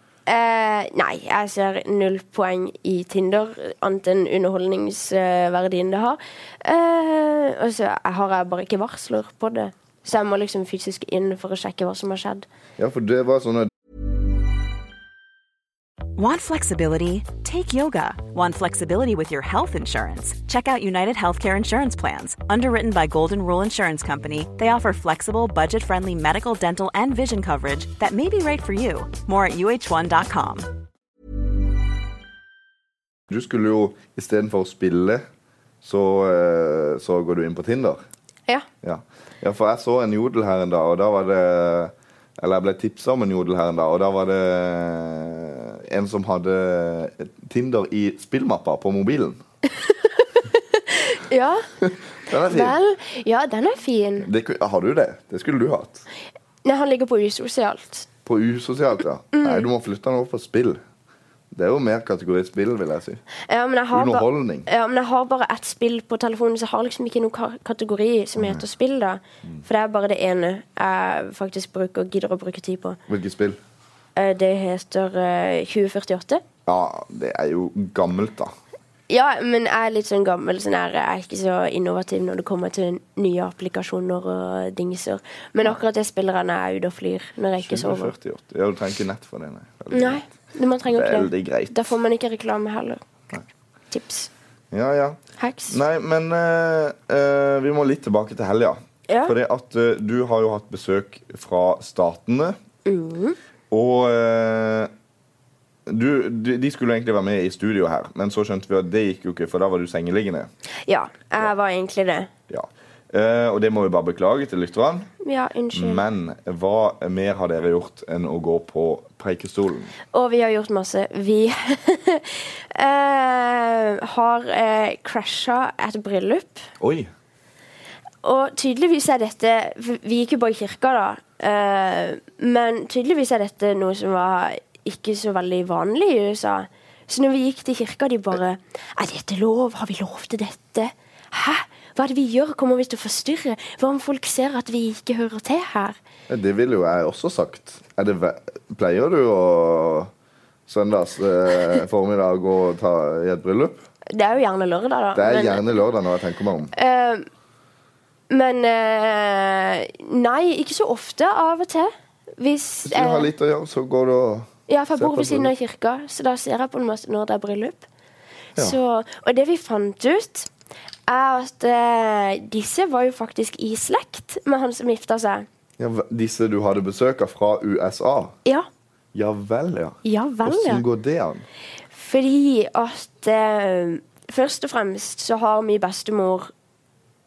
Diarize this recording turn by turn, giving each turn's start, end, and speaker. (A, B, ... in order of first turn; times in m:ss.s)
0:00.3-0:12.5 A
0:12.8-0:13.7 B
0:16.2-0:30.7 C
0:33.3-0:35.2 B
0:35.8-0:38.0 B
0:38.8-0:49.4 B
0:49.8-0:51.7 A
0:51.8-0:52.8 B
0:52.4-0:54.3 A
0:54.2-0:56.0 B
0:56.6-0:58.1 A
0:58.2-1:00.8 B
0:59.3-0:59.7 A
1:01.5-1:03.2 B
1:03.5-1:13.0 A
1:03.9-1:04.7 B
1:08.4-1:08.6 B
1:13.1-1:13.6 B
1:14.2-1:16.4 A
1:16.6-1:18.5 B
1:19.1-1:28.1 A
1:27.6-1:30.3 B
1:29.9-1:33.0 A
1:30.8-1:31.9 B
1:33.9-1:34.3 A
1:34.7-1:42.6 B
1:35.4-1:35.8 A
1:39.1-1:39.3 A
1:42.8-1:43.4 A
1:43.7-1:44.9 B
1:45.9-1:50.5 B
1:50.9-1:52.3 A
1:52.5-1:55.1 B
1:55.2-1:56.0 A
1:55.7-1:59.9 B
2:00.1-2:06.7 A
2:06.8-2:07.1 B
2:08.2-2:26.0 A
2:26.3-2:30.1 B
2:30.7-2:33.8 B
2:34.1-2:35.8 A
2:35.1-2:36.7 B
2:36.7-2:37.2 A
2:38.3-2:43.3 A
2:42.8-2:45.5 B
2:44.7-2:47.8 A
2:48.6-2:50.5 A
2:51.1-2:55.4 A
2:55.8-2:58.4 B
2:59.1-3:01.4 B
3:00.0-3:00.8 A
3:01.9-3:06.5 A